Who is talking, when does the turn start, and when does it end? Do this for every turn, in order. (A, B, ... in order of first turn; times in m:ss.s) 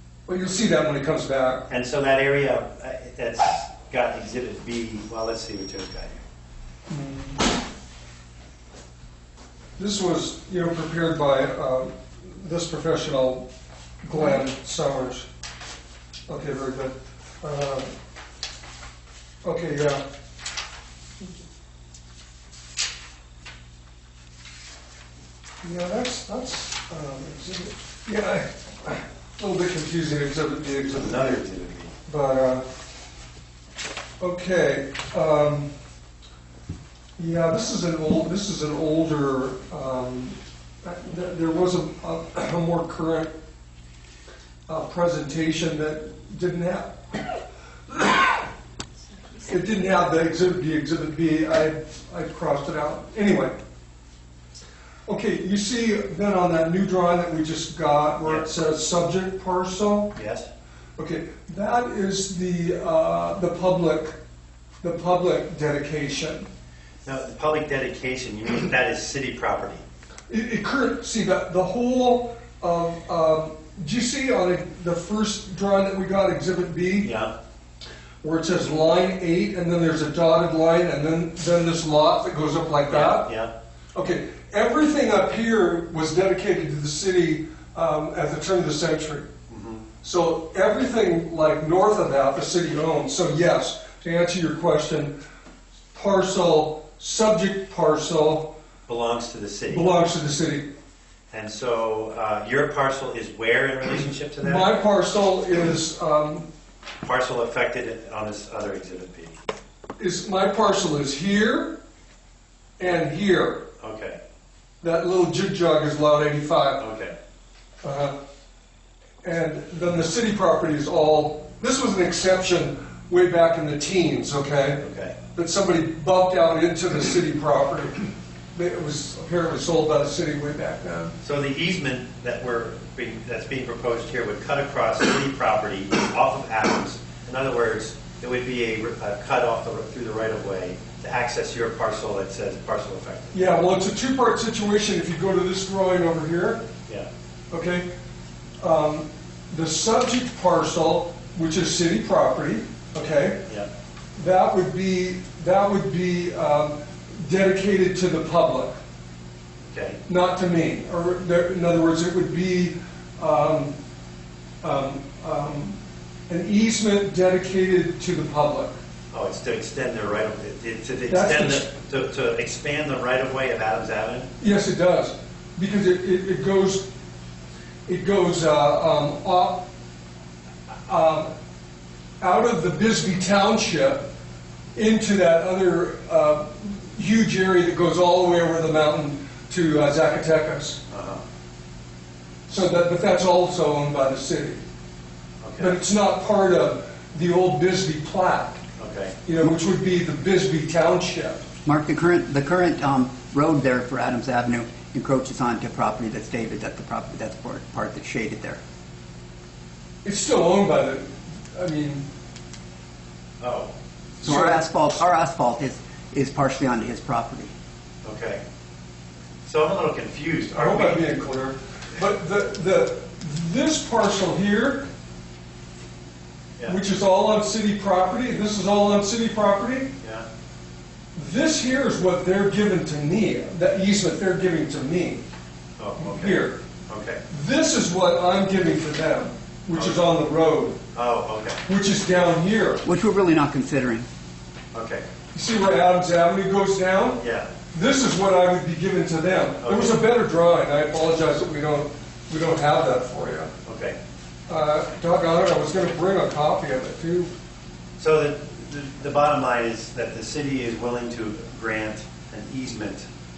0:00.3-0:01.7 A
0:01.7-0:06.2 B
0:06.9-0:07.4 A
0:09.8-0:13.5 A
0:14.0-0:15.3 A
0:16.3-0:17.9 A
0:19.4-0:20.0 A
0:25.6-0:31.4 A
0:30.9-0:31.9 B
0:32.1-0:32.7 A
0:34.2-0:35.7 A
0:37.2-0:43.3 A
0:44.7-0:47.0 A
0:47.9-0:48.4 A
0:49.5-0:53.6 A
0:55.1-1:00.1 A
1:00.2-1:00.5 B
1:01.0-1:04.2 A
1:04.8-1:06.5 A
1:07.1-1:09.8 B
1:10.3-1:17.1 A
1:17.0-1:17.3 B
1:18.2-1:23.3 A
1:22.9-1:23.5 B
1:24.0-1:29.3 A
1:29.5-1:29.9 B
1:30.0-1:35.2 A
1:35.9-1:38.5 A
1:38.9-1:39.9 B
1:39.7-1:40.7 A
1:41.3-1:44.7 B
1:44.4-1:46.5 A
1:47.0-1:49.4 B
1:50.0-1:51.7 A
1:52.8-1:53.6 A
1:53.8-1:54.2 B
1:54.8-1:56.8 A
1:56.8-1:57.2 B
1:57.8-1:58.2 A
1:59.2-2:11.2 A
2:04.8-2:05.2 B
2:11.2-2:23.6 B
2:23.3-2:26.7 A
2:27.5-2:27.9 A
2:28.6-2:33.4 A
2:34.2-2:38.8 A
2:39.7-2:40.0 B
2:40.1-2:43.8 A
2:44.6-2:48.8 A
2:49.1-2:54.3 B
2:51.1-2:51.7 A
2:54.4-2:56.9 A
2:57.9-2:59.7 A
3:00.9-3:01.3 A
3:02.2-3:04.1 A
3:04.8-3:10.8 A
3:10.9-3:11.2 B
3:12.5-3:14.6 A
3:15.4-3:15.8 B
3:15.6-3:18.6 A
3:18.8-3:19.2 B
3:19.2-3:21.4 A
3:21.6-3:28.6 C
3:30.0-3:32.1 A
3:33.4-3:33.7 B
3:34.2-3:34.6 A
3:34.2-3:37.5 C
3:38.0-3:38.4 B
3:39.4-3:41.1 B
3:40.5-3:44.9 A
3:46.7-3:49.9 A
3:50.0-3:50.3 B
3:51.2-3:55.2 A
3:55.8-3:57.2 B
3:56.0-3:56.6 A
3:57.3-4:00.8 A
3:59.7-4:00.0 B
4:00.9-4:01.6 B
4:01.7-4:02.8 A
4:02.8-4:04.1 C
4:04.7-4:05.0 B
4:05.3-4:13.5 A
4:07.2-4:07.5 B
4:09.6-4:10.0 B
4:13.6-4:14.0 B
4:14.5-4:17.3 A
4:18.0-4:23.1 B